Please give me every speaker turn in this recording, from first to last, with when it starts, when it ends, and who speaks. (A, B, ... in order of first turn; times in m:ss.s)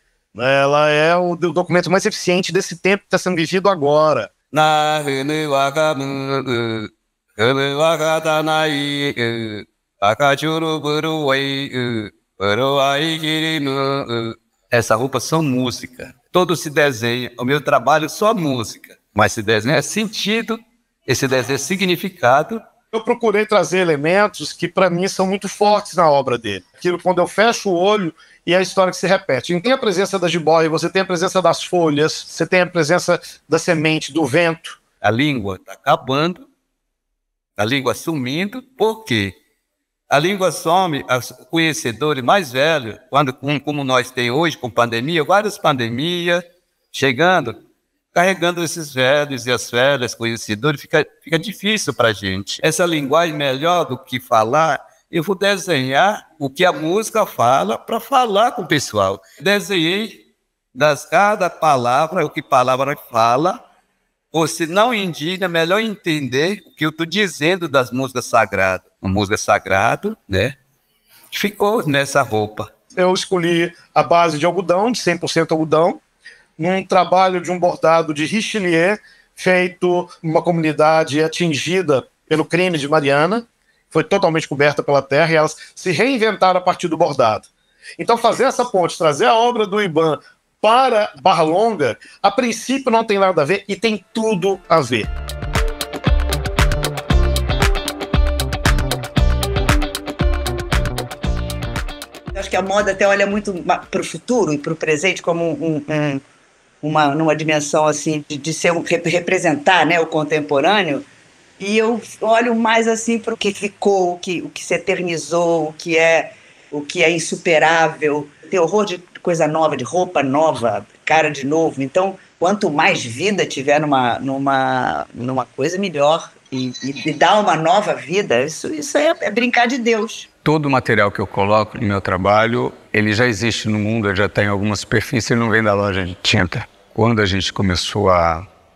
0:00.3-0:04.3 A
0:04.5-0:22.6 B
0:22.9-0:34.8 A
0:35.0-0:36.4 B
0:37.6-0:39.3 B
0:40.1-0:47.6 B
0:48.1-1:00.2 B
1:00.7-1:03.6 B
1:04.3-1:10.5 B
1:11.3-1:12.7 B
1:13.0-1:16.0 A
1:16.6-1:27.5 A
1:28.0-1:35.1 A
1:42.3-1:46.2 C
1:46.8-1:51.0 C
1:51.6-2:10.3 C
2:10.4-2:18.5 D